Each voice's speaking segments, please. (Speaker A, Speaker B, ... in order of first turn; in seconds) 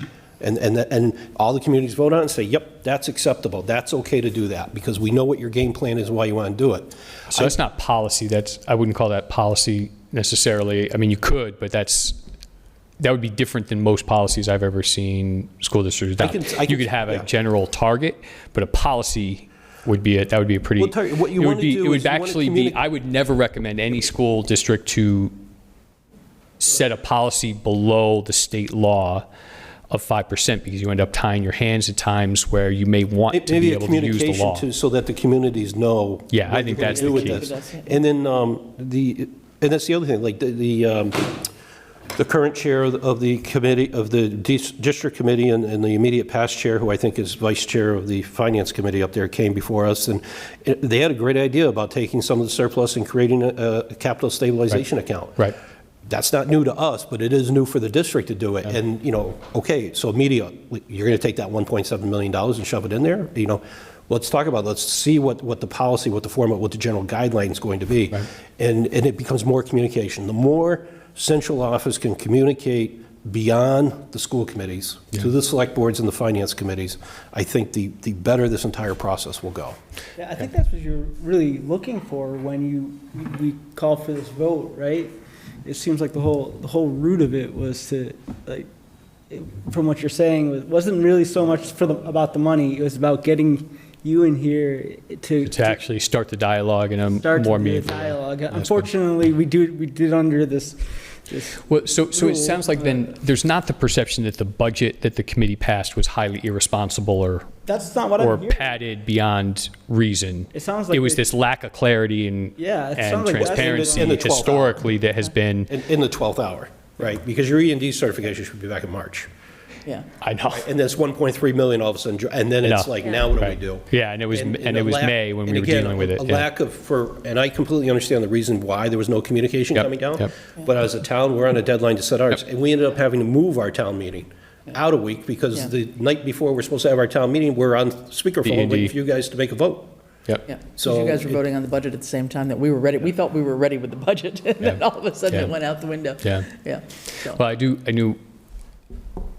Speaker A: 0.4-7.6, 16.2-17.3, 20.8-22.8, 33.3-41.5, 42.1-55.5, 56.1-79.8, 113.4-114.8, 115.7-119.3, 120.5-139.9, 140.8-141.4
Speaker B: 7.3-12.2, 13.0-25.3, 26.6-29.2, 29.9-34.7, 36.3-37.5, 95.5-98.9, 101.7-107.5, 108.2-115.7, 120.2-120.7, 122.6-126.5, 129.8-130.3, 138.4-138.9, 144.6-145.5, 146.2-146.5, 147.2-148.2
Speaker C: 36.8-37.9, 140.5-147.4
Speaker D: 80.2-88.7, 89.3-95.8, 97.1-103.1, 107.7-108.8, 110.5-111.3, 112.6-114.2